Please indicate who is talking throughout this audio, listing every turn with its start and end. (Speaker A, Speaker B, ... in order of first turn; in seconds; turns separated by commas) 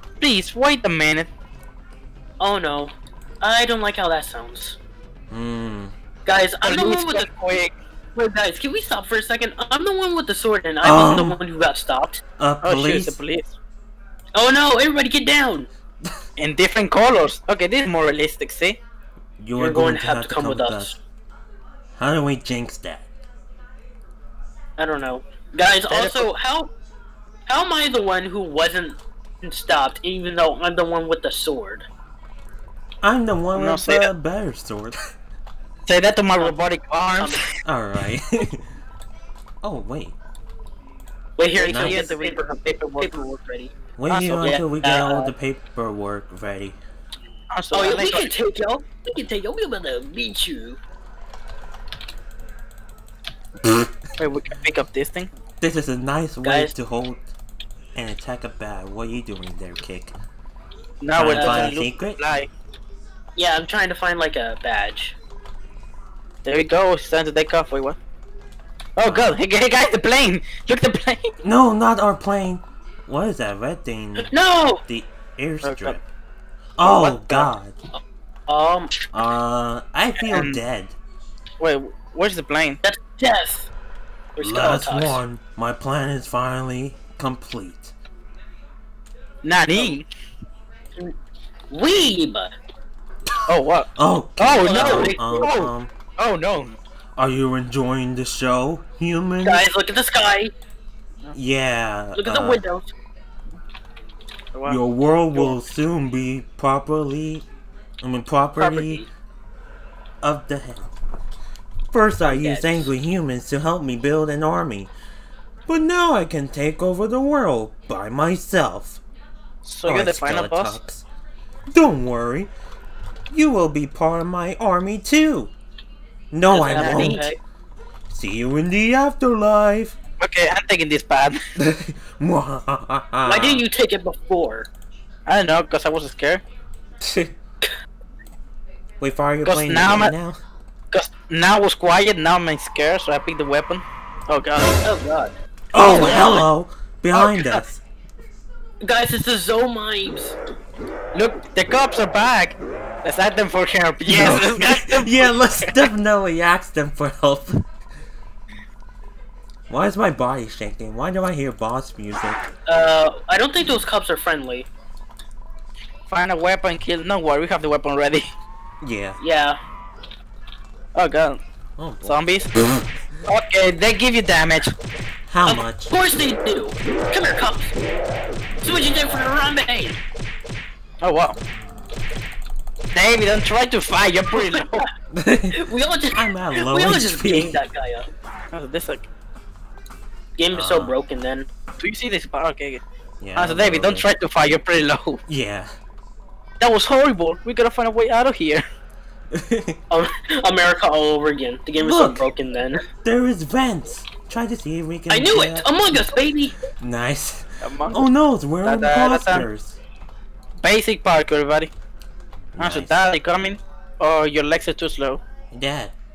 Speaker A: 0.2-1.3, Speaker B: 2.4-4.8, Speaker C: 5.3-5.9, Speaker B: 6.2-7.3, Speaker A: 6.6-7.7, Speaker B: 8.2-12.2, Speaker C: 10.8-11.4, Speaker C: 12.4-13.2, Speaker A: 12.6-13.5, Speaker B: 14.3-15.7, Speaker A: 16.4-18.8, Speaker C: 19.4-20.9, Speaker B: 19.6-20.9, Speaker C: 22.0-23.0, Speaker B: 24.8-26.7, Speaker A: 25.9-26.3, Speaker B: 27.5-31.9, Speaker C: 33.0-35.0, Speaker A: 33.5-34.1, Speaker A: 35.9-37.4, Speaker C: 37.6-38.6, Speaker C: 39.6-40.1, Speaker B: 41.4-43.7, Speaker A: 41.6-43.1, Speaker C: 41.6-42.1, Speaker C: 44.0-46.8, Speaker A: 44.1-44.5, Speaker B: 44.4-45.3, Speaker A: 47.5-48.3, Speaker B: 47.7-50.8, Speaker A: 54.2-55.3, Speaker C: 55.6-57.3, Speaker B: 56.4-56.7, Speaker C: 57.9-60.1, Speaker A: 61.0-62.5, Speaker C: 61.1-62.2, Speaker B: 61.3-61.7, Speaker B: 63.4-65.2, Speaker A: 66.4-68.0, Speaker A: 69.0-71.3, Speaker C: 69.0-69.4, Speaker C: 71.4-74.3, Speaker B: 74.2-74.8, Speaker C: 74.9-76.0, Speaker A: 75.6-76.0, Speaker C: 76.8-77.7, Speaker A: 76.8-77.5, Speaker B: 77.9-79.1, Speaker C: 79.1-80.9, Speaker A: 80.2-80.6, Speaker A: 81.6-82.8, Speaker B: 82.8-83.7, Speaker B: 84.4-85.2, Speaker C: 84.4-87.9, Speaker A: 89.4-90.0, Speaker B: 91.7-92.5, Speaker C: 91.9-92.1, Speaker A: 93.5-96.7, Speaker C: 94.0-95.9, Speaker B: 94.6-95.2, Speaker C: 97.2-99.7, Speaker B: 99.4-100.5, Speaker C: 101.3-102.6, Speaker B: 102.2-102.9, Speaker A: 104.5-104.8, Speaker C: 104.7-107.4, Speaker C: 108.0-109.0, Speaker B: 108.6-109.1, Speaker C: 110.2-110.9, Speaker C: 111.9-114.9, Speaker B: 112.2-112.9, Speaker C: 115.7-119.0, Speaker A: 119.6-120.8, Speaker C: 119.8-121.0, Speaker C: 121.7-122.5, Speaker C: 123.3-125.5, Speaker C: 126.3-127.3, Speaker B: 126.5-127.4, Speaker A: 126.7-127.2, Speaker C: 128.1-130.0, Speaker A: 130.2-131.4, Speaker C: 131.6-133.6, Speaker B: 133.2-134.7, Speaker A: 135.3-136.4, Speaker C: 137.0-137.3, Speaker C: 139.0-140.4, Speaker A: 139.4-140.1, Speaker A: 140.9-144.8, Speaker B: 144.8-146.4, Speaker C: 145.7-147.8, Speaker A: 145.8-146.4, Speaker A: 147.1-147.6, Speaker B: 148.8-150.4, Speaker A: 151.1-155.7, Speaker C: 154.1-157.6, Speaker C: 159.7-162.4, Speaker B: 162.7-164.7, Speaker A: 166.1-168.3, Speaker C: 168.8-169.2, Speaker B: 169.2-169.6, Speaker A: 170.9-171.4, Speaker C: 171.8-172.2, Speaker A: 172.0-172.5, Speaker A: 173.3-174.7, Speaker C: 175.3-175.9, Speaker B: 175.4-177.7, Speaker B: 178.6-180.0, Speaker A: 181.0-181.4, Speaker A: 182.9-184.8, Speaker B: 184.3-184.9, Speaker C: 185.1-187.6, Speaker B: 185.5-188.1, Speaker A: 188.5-189.1, Speaker B: 190.4-191.5, Speaker C: 190.5-190.9, Speaker A: 191.8-192.8, Speaker C: 193.2-194.0, Speaker A: 193.4-195.2, Speaker C: 195.3-195.7, Speaker A: 196.6-198.6, Speaker C: 199.3-199.8, Speaker B: 199.9-202.8, Speaker C: 201.8-202.2, Speaker C: 203.0-205.8, Speaker B: 205.1-206.5, Speaker C: 206.8-209.8, Speaker A: 207.6-208.1, Speaker A: 208.6-209.5, Speaker A: 210.6-211.7, Speaker C: 212.6-212.9, Speaker A: 212.6-215.2, Speaker C: 215.5-215.9